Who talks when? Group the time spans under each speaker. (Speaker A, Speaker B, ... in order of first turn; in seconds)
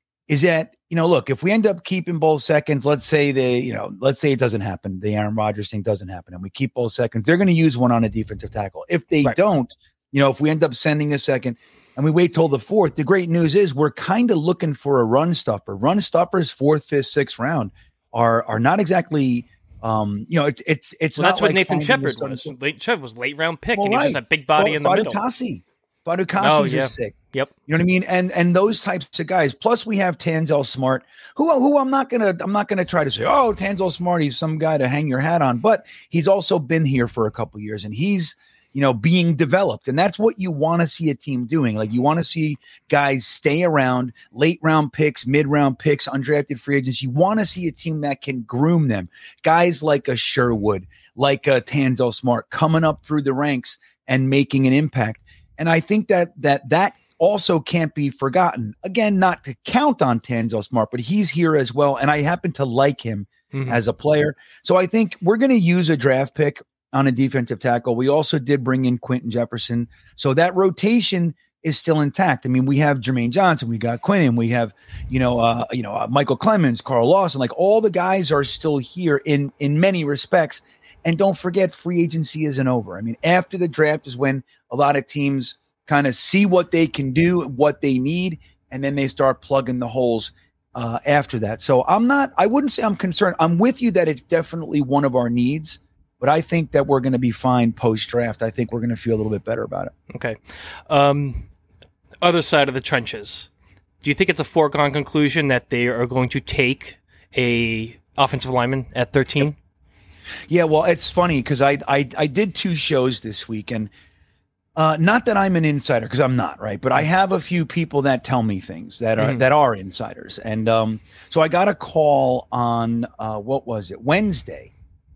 Speaker A: 0.3-22.5, 23.8-27.1, 27.7-99.9, 110.5-113.9, 114.8-124.7
Speaker B: 21.1-25.2, 26.4-27.5, 63.5-63.8, 100.1-100.4, 100.9-101.5, 102.2-103.5, 104.0-109.5, 119.2-119.4